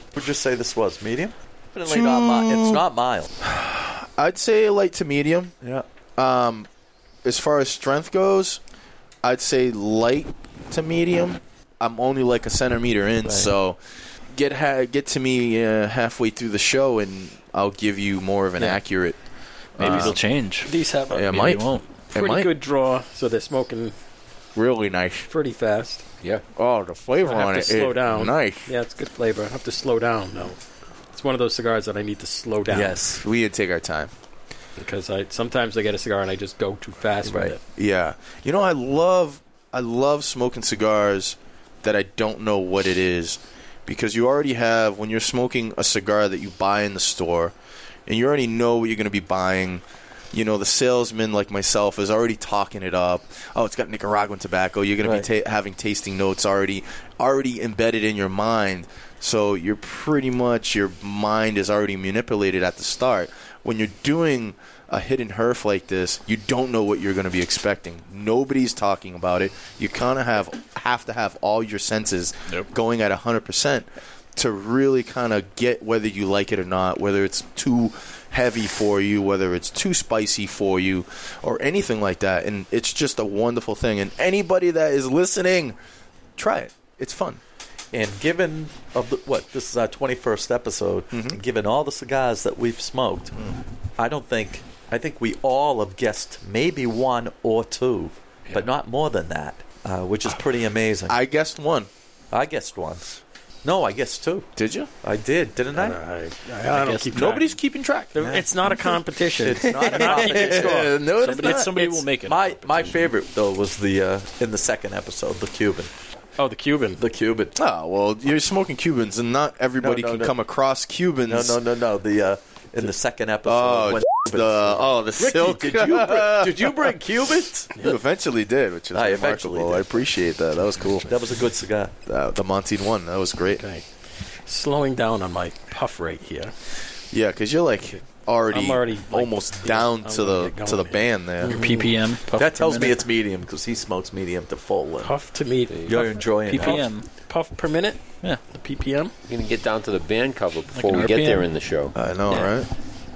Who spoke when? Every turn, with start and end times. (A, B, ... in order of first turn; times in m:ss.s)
0:00.1-0:03.3 A
0:01.8-0:02.8 B
0:03.4-0:05.5 B
0:06.2-0:06.7 B
0:07.2-0:08.6 B
0:09.2-0:13.8 B
0:13.2-0:13.5 A
0:14.3-0:19.2 B
0:19.7-0:20.2 B
0:19.8-0:20.7 C
0:19.8-0:21.5 D
0:21.1-0:22.5 B
0:21.3-0:21.9 C
0:22.1-0:23.9 D
0:24.5-0:25.3 B
0:25.3-0:26.0 D
0:26.6-0:28.7 B
0:27.2-0:30.6 D
0:31.1-0:33.0 D
0:32.7-0:33.2 A
0:33.2-0:34.1 B
0:34.8-0:37.6 D
0:37.2-0:37.6 A
0:37.7-0:47.5 B
0:48.0-1:25.8 B
1:26.4-1:27.4 B
1:27.9-1:33.3 A
1:31.1-1:31.4 B
1:34.0-1:41.2 A
1:41.1-1:41.9 B
1:42.3-1:44.5 A
1:44.6-1:44.9 B
1:45.0-1:46.0 A
1:45.7-1:47.5 D
1:46.7-1:47.3 C
1:47.1-1:48.2 B
1:48.1-1:51.0 D
1:48.2-1:48.5 A
1:49.4-1:51.0 A
1:49.6-1:51.8 B
1:51.1-1:52.9 C
1:51.6-1:52.0 D
1:52.2-1:55.9 A
1:56.4-1:57.0 D
1:57.0-1:57.6 A
1:57.5-2:01.6 B
1:59.8-2:00.3 A
2:01.3-2:07.9 A
2:03.4-2:07.0 B
2:07.8-2:11.2 B
2:08.9-2:10.0 A
2:11.0-2:11.9 A
2:12.0-2:13.6 B
2:13.5-2:13.8 D
2:14.4-2:16.5 D
2:17.1-2:21.6 B
2:18.5-2:21.9 D
2:21.4-2:23.0 C
2:22.3-2:25.1 A
2:25.0-2:29.1 D
2:25.7-2:26.0 E
2:25.8-2:26.8 A
2:26.4-2:27.1 C
2:29.3-2:32.0 E
2:30.8-2:31.4 C
2:31.9-2:32.7 B
2:32.3-2:32.5 D